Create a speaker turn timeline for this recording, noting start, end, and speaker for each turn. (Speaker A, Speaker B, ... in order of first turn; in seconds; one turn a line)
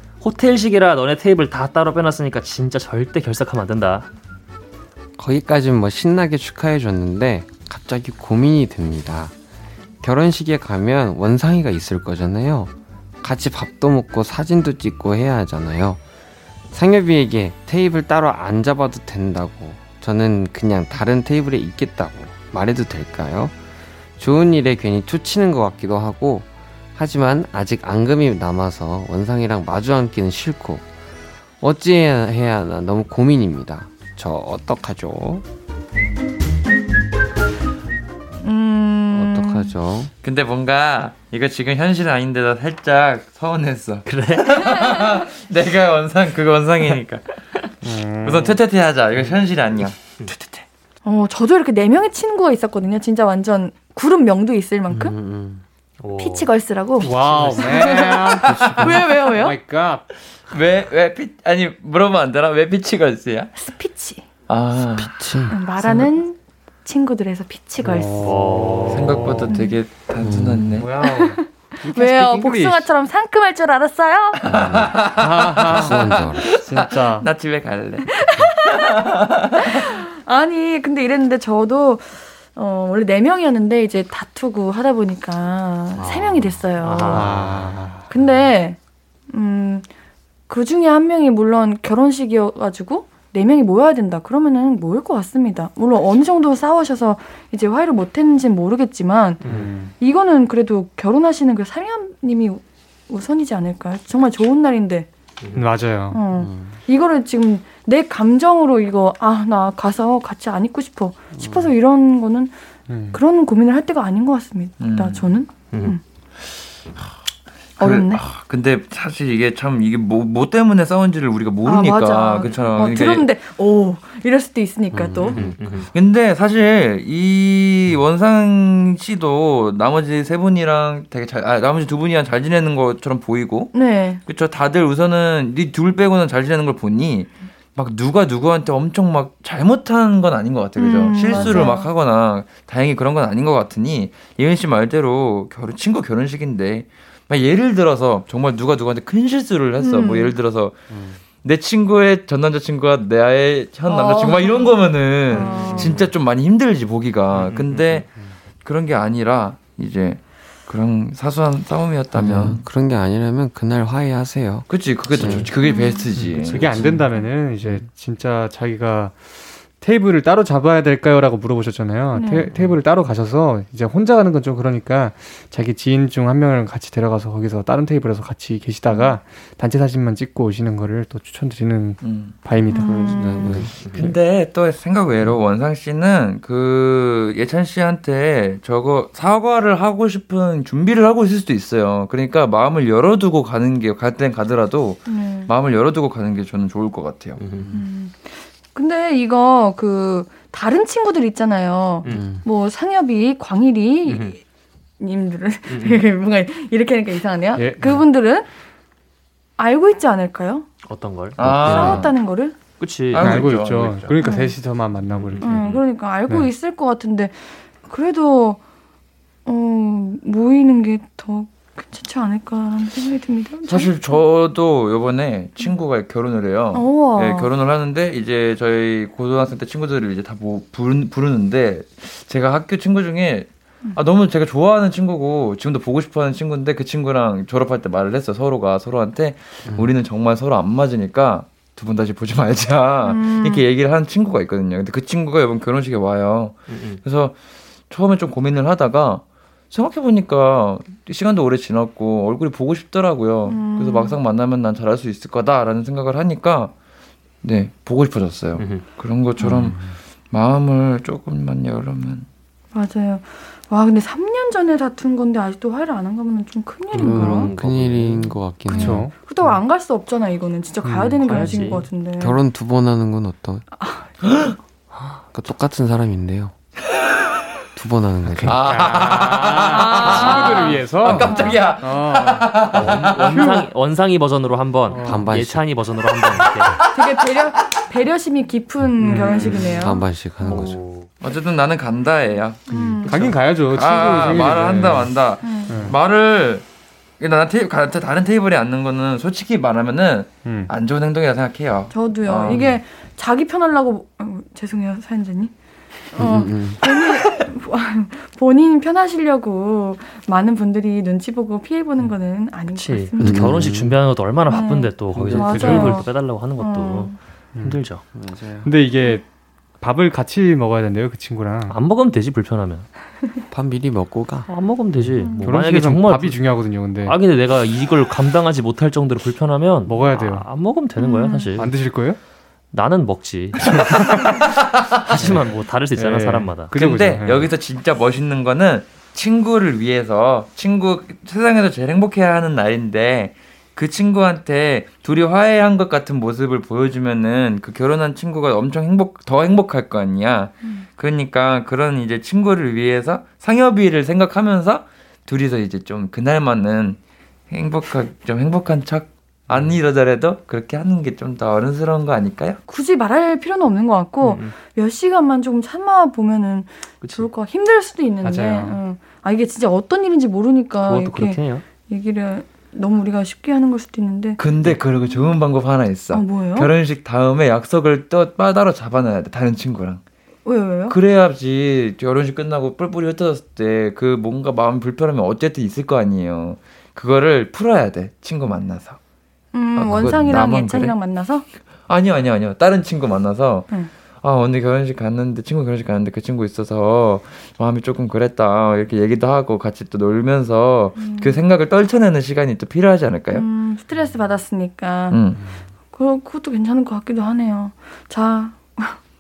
Speaker A: 0.2-4.1
Speaker B: 5.2-9.3
Speaker B: 10.0-16.0
Speaker B: 16.7-23.6
Speaker B: 24.2-30.9
Speaker B: 31.6-35.5
Speaker C: 38.4-39.7
Speaker B: 39.1-40.1
Speaker D: 40.2-47.3
Speaker A: 44.1-44.7
Speaker E: 47.8-48.6
Speaker D: 48.2-50.6
Speaker C: 51.0-55.1
Speaker B: 54.9-55.6
Speaker A: 56.0-56.5
Speaker C: 56.2-59.6
Speaker E: 57.0-60.0
Speaker A: 57.0-58.4
Speaker B: 58.5-59.0
Speaker D: 60.5-63.5
Speaker C: 63.6-64.3
Speaker D: 64.5-65.2
Speaker B: 64.8-65.6
Speaker C: 65.5-68.4
Speaker E: 67.8-69.5
Speaker A: 68.2-69.3
Speaker D: 68.9-71.0
Speaker C: 69.4-69.8
Speaker B: 70.2-70.8
Speaker E: 70.8-72.9
Speaker C: 71.0-74.4
Speaker D: 74.4-79.7
Speaker B: 74.5-75.0
Speaker E: 75.2-77.3
Speaker B: 75.7-76.5
Speaker C: 78.1-78.9
Speaker C: 79.6-87.4
Speaker B: 86.0-86.6
Speaker A: 86.8-87.8
Speaker E: 87.1-88.1
Speaker C: 88.1-88.8
Speaker C: 89.3-89.9
Speaker C: 90.5-99.4
Speaker A: 99.4-99.7
Speaker E: 99.4-99.9
Speaker C: 100.0-105.1
Speaker A: 105.4-105.7
Speaker E: 105.6-106.2
Speaker C: 106.1-112.5
Speaker B: 106.3-106.8
Speaker B: 111.3-111.7
Speaker E: 112.9-113.2
Speaker C: 113.1-116.0
Speaker D: 114.8-115.4
Speaker A: 115.7-116.0
Speaker C: 117.8-118.2
Speaker D: 117.8-123.3
Speaker C: 121.7-125.4
Speaker B: 124.9-125.8
Speaker A: 125.3-125.9
Speaker D: 125.9-133.7
Speaker C: 133.7-134.2
Speaker D: 134.2-158.1
Speaker C: 140.8-141.9
Speaker C: 149.8-150.3
Speaker B: 150.9-151.2
Speaker C: 153.9-154.7
Speaker C: 155.3-156.1
Speaker A: 157.3-158.0
Speaker D: 158.6-162.7
Speaker B: 162.1-165.5
Speaker D: 164.7-167.0
Speaker C: 165.6-166.1
Speaker E: 166.1-169.2
Speaker E: 169.7-183.4
Speaker C: 172.1-172.5
Speaker C: 178.9-179.2
Speaker D: 182.0-182.4
Speaker C: 182.7-183.7
Speaker B: 182.8-184.1
Speaker A: 183.8-184.2
Speaker D: 183.9-197.4
Speaker C: 195.1-195.5
Speaker A: 197.4-197.8
Speaker B: 197.5-197.8
Speaker C: 197.7-204.4
Speaker B: 202.1-202.4
Speaker A: 204.1-204.4
Speaker C: 205.0-208.5
Speaker A: 205.7-206.1
Speaker E: 207.6-208.0
Speaker C: 209.6-210.7
Speaker A: 210.9-211.5
Speaker D: 211.4-212.1
Speaker B: 211.4-212.0
Speaker C: 211.6-212.6
Speaker A: 212.8-213.5
Speaker D: 213.1-214.2
Speaker E: 213.2-215.7
Speaker C: 214.2-214.6
Speaker A: 215.1-215.8
Speaker C: 215.4-218.6
Speaker C: 219.5-224.2
Speaker D: 223.7-247.3
Speaker C: 226.7-227.5
Speaker C: 243.0-243.6
Speaker A: 246.7-247.0
Speaker D: 247.9-256.7
Speaker C: 253.5-254.2
Speaker D: 257.4-262.3
Speaker A: 258.6-258.9
Speaker B: 259.4-260.0
Speaker C: 262.7-267.5
Speaker B: 266.9-269.1
Speaker A: 267.0-268.4
Speaker C: 268.7-272.4
Speaker E: 268.7-269.1
Speaker E: 270.8-271.8
Speaker A: 271.2-271.9
Speaker B: 272.1-273.6
Speaker C: 273.8-274.2
Speaker D: 274.2-274.6
Speaker A: 274.9-275.2
Speaker B: 275.3-276.5
Speaker B: 277.8-278.6
Speaker D: 278.4-283.6
Speaker E: 278.5-282.6
Speaker C: 279.7-281.6
Speaker A: 282.7-286.8
Speaker E: 284.9-285.3
Speaker B: 285.0-285.7
Speaker C: 286.9-290.0
Speaker E: 289.0-289.6
Speaker A: 289.2-289.7
Speaker B: 289.5-290.8
Speaker A: 290.4-291.1
Speaker D: 291.2-296.6
Speaker C: 292.7-293.3
Speaker E: 292.7-295.1
Speaker C: 295.4-295.8
Speaker E: 295.7-295.9
Speaker D: 297.2-302.8
Speaker E: 300.4-300.7
Speaker C: 301.9-305.5
Speaker C: 306.1-313.8
Speaker B: 306.2-306.8
Speaker A: 312.7-318.1
Speaker B: 313.2-313.9
Speaker C: 314.5-317.2
Speaker B: 315.1-315.6
Speaker E: 315.4-316.1
Speaker E: 317.5-317.9
Speaker B: 318.1-318.7
Speaker E: 318.6-321.8
Speaker A: 321.7-322.9
Speaker B: 323.5-324.5
Speaker A: 324.5-331.8
Speaker E: 325.0-327.2
Speaker C: 325.2-325.5
Speaker E: 329.9-330.5
Speaker C: 331.0-331.5
Speaker E: 331.6-332.2
Speaker A: 332.7-334.3
Speaker D: 334.4-335.4
Speaker A: 335.1-336.8
Speaker E: 335.1-335.4
Speaker E: 335.9-337.5
Speaker D: 336.7-357.0
Speaker D: 357.5-362.6
Speaker C: 362.7-374.4
Speaker A: 364.2-364.6
Speaker A: 367.0-367.3
Speaker E: 368.2-368.8
Speaker A: 370.8-371.6
Speaker D: 374.4-380.0
Speaker C: 376.1-376.7
Speaker C: 380.4-381.0
Speaker D: 380.9-389.0
Speaker C: 389.5-391.5
Speaker D: 389.8-391.0
Speaker D: 391.9-403.5
Speaker C: 401.0-401.4
Speaker C: 403.3-405.2
Speaker D: 405.1-405.4
Speaker C: 405.9-409.0